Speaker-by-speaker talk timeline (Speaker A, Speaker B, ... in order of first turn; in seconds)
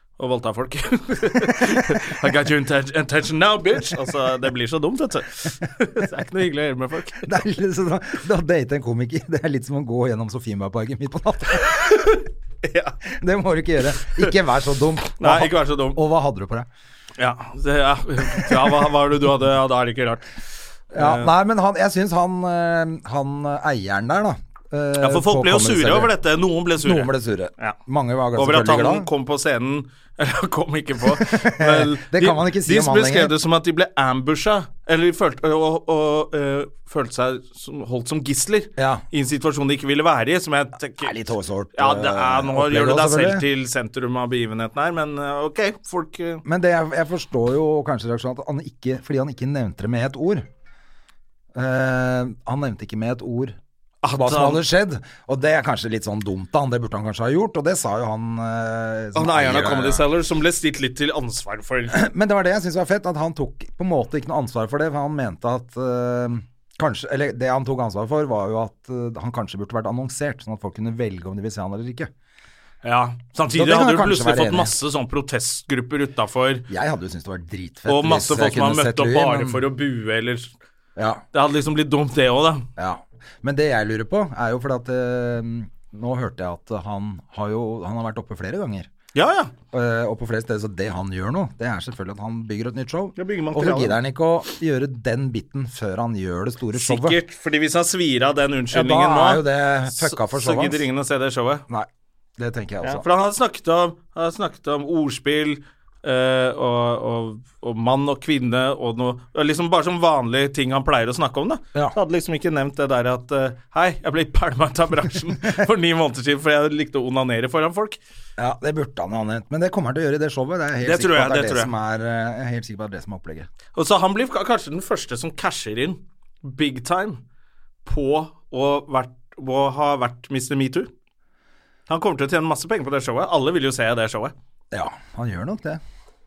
Speaker A: 0.2-7.3, 11.6-13.0, 15.2-16.0, 17.2-20.2, 20.9-21.3, 25.0-27.8, 28.4-41.1, 41.8-46.4, 54.0-54.6, 59.1-62.0, 72.8-76.7, 77.9-80.5, 81.3-82.7, 89.1-89.5, 93.2-94.0, 96.8-101.6, 102.8-118.0, 120.8-121.7, 123.8-127.2, 127.8-130.9, 131.9-134.3
Speaker B: 7.2-12.0, 13.1-16.7, 20.9-26.1, 26.8-29.1, 31.1-33.3, 38.8-39.0, 41.0-43.4, 46.5-50.5, 51.5-53.6, 54.1-60.0, 61.9-72.1, 73.5-74.7, 76.7-79.6, 81.0-81.2, 82.8-88.9, 89.7-97.2, 98.7-100.9, 101.7-103.0, 118.4-123.5, 134.7-135.8